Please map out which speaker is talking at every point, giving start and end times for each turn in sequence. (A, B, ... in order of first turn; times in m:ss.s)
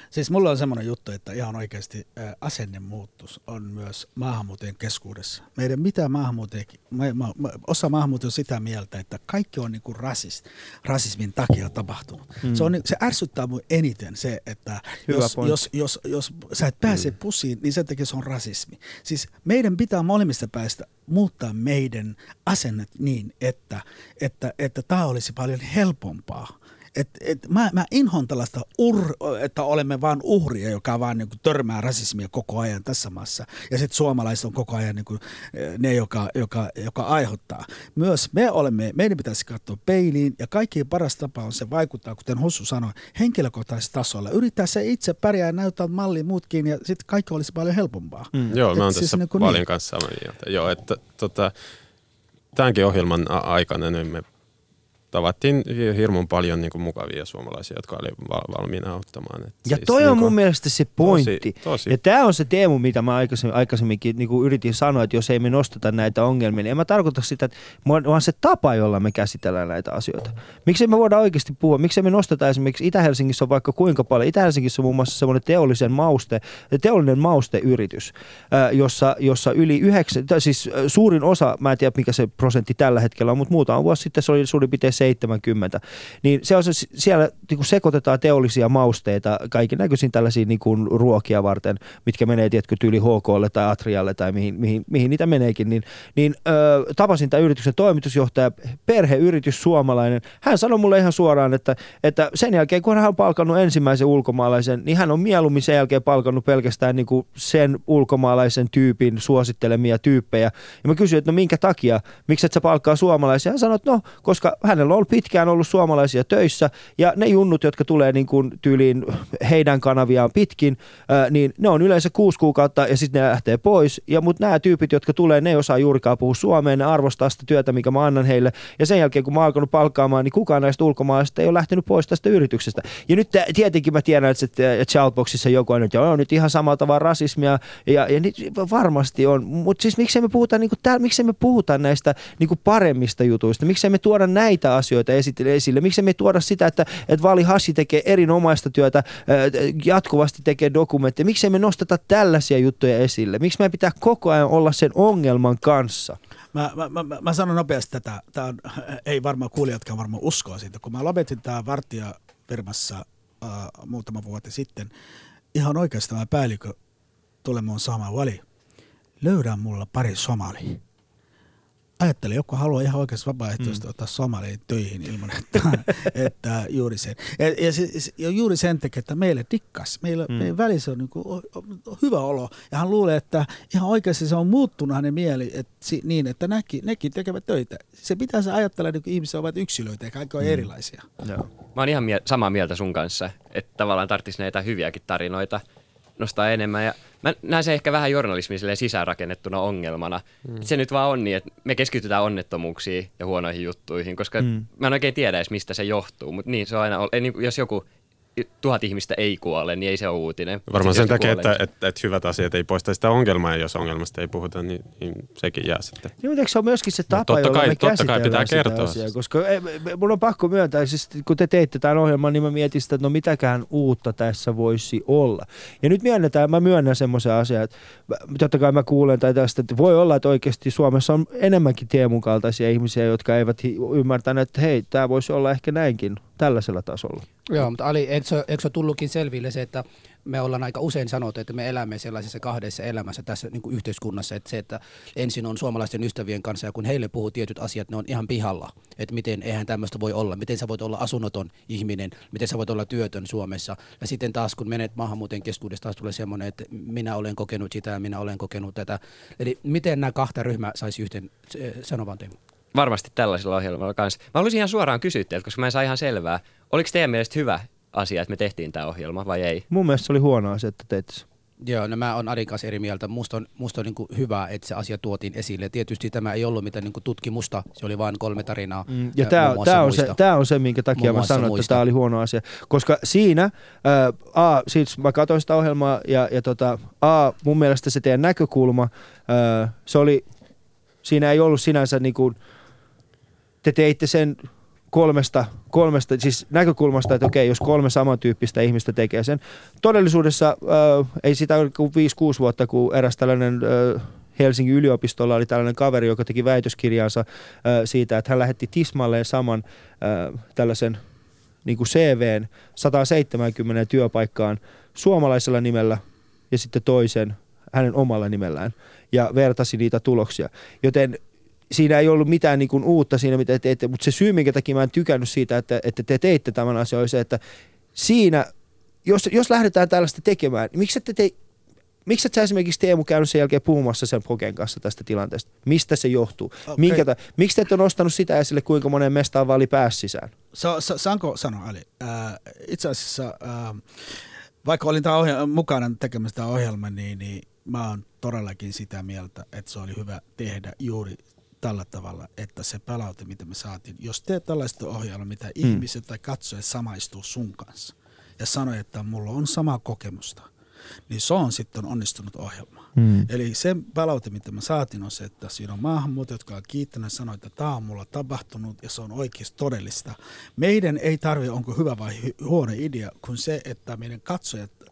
0:00.1-0:49.6 A
0:12.4-0:12.7 B
0:15.1-0:15.6 B
0:48.5-0:51.5 C
0:52.5-0:54.3 C
0:55.1-1:00.4 C
0:59.6-2:36.2 B
1:01.0-1:01.9 C
2:36.5-2:44.9 A
2:45.5-2:46.8 A
2:47.4-2:48.4 A
2:49.2-2:50.8 A
2:52.0-3:11.0 A
3:10.4-3:10.7 B
3:11.2-3:11.5 B
3:11.7-3:15.6 D
3:16.2-3:27.8 D
3:28.4-3:31.5 D
3:30.7-3:36.1 C
3:36.2-3:57.2 B
3:37.1-3:39.0 C
3:57.5-4:22.4 E
4:22.7-4:29.6 D
4:29.7-4:31.2 B
4:31.6-4:40.2 E
4:38.9-4:50.2 B
4:41.0-4:41.8 E
4:51.0-4:52.4 B
4:53.6-5:11.0 B
5:11.6-5:27.4 B
5:27.9-5:28.5 B
5:29.0-5:31.3 B
5:32.0-5:40.3 B
5:36.7-5:37.0 A
5:40.5-5:43.8 A
5:44.6-6:00.5 A
6:01.1-6:14.8 A
6:03.0-6:03.3 B